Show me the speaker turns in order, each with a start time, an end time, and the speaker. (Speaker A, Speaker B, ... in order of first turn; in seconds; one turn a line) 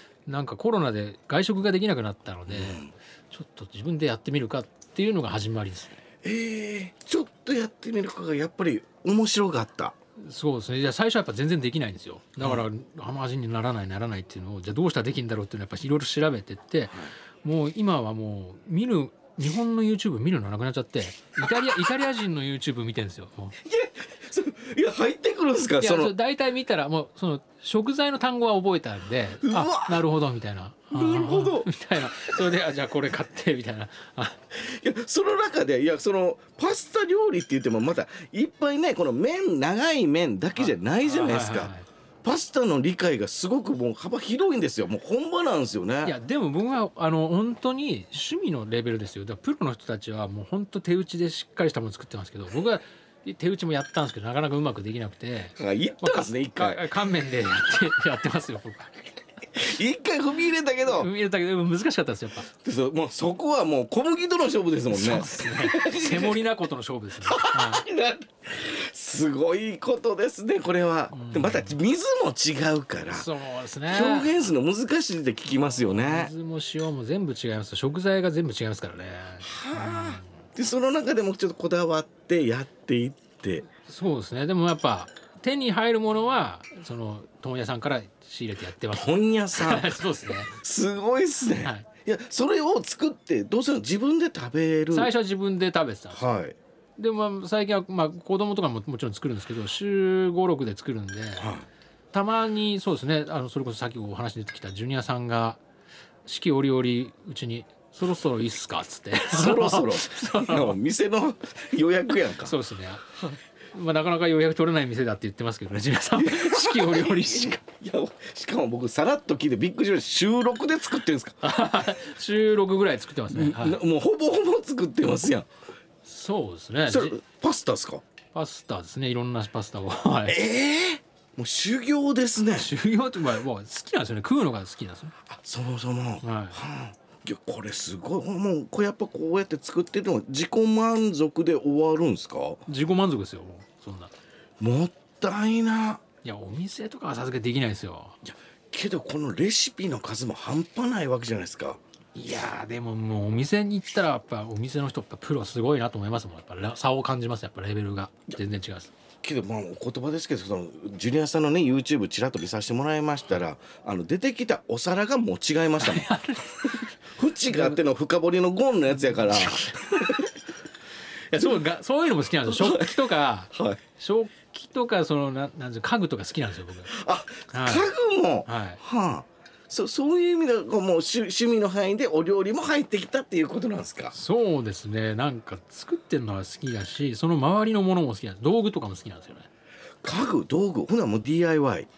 Speaker A: 0.2-6.0
Speaker B: 2.5-2.9
Speaker B: 6.2-10.0
Speaker A: 10.2-23.6
Speaker B: 23.6-26.1
Speaker A: 25.8-34.5
Speaker B: 29.4-30.1
Speaker B: 30.9-32.4
Speaker B: 34.6-46.2
Speaker A: 40.6-41.9
Speaker A: 46.0-59.1
Speaker B: 55.6-56.9
Speaker B: 59.6-61.1
Speaker A: 60.9-62.5
Speaker B: 62.6-66.4
Speaker A: 64.9-67.9
Speaker B: 67.2-73.3
Speaker A: 71.1-71.8
Speaker A: 73.1-74.5
Speaker B: 73.8-76.3
Speaker A: 75.5-80.3
Speaker B: 79.4-83.7
Speaker A: 83.8-90.6
Speaker B: 88.9-95.1
Speaker A: 91.6-91.9
Speaker A: 94.9-96.3
Speaker B: 96.1-96.6
Speaker A: 97.0-101.5
Speaker B: 101.4-101.7
Speaker A: 102.1-105.6
Speaker A: 106.2-110.8
Speaker B: 109.1-112.6
Speaker A: 112.4-117.6
Speaker B: 116.1-121.4
Speaker A: 121.4-123.8
Speaker B: 123.3-125.5
Speaker A: 126.0-127.2
Speaker B: 126.9-128.0
Speaker A: 128.3-130.4
Speaker B: 130.3-132.7
Speaker A: 132.6-135.2
Speaker B: 135.3-142.6
Speaker A: 136.2-136.6
Speaker A: 142.7-144.1
Speaker B: 144.6-146.0
Speaker A: 146.2-148.2
Speaker B: 148.2-151.8
Speaker A: 152.2-158.9
Speaker B: 159.2-166.1
Speaker A: 165.8-166.9
Speaker B: 166.7-170.3
Speaker A: 167.5-167.8
Speaker A: 169.0-169.9
Speaker A: 171.3-176.9
Speaker B: 171.3-171.7
Speaker B: 172.4-173.8
Speaker B: 176.9-184.2
Speaker A: 177.5-177.9
Speaker A: 178.4-178.8
Speaker A: 184.1-189.5
Speaker B: 190.0-191.9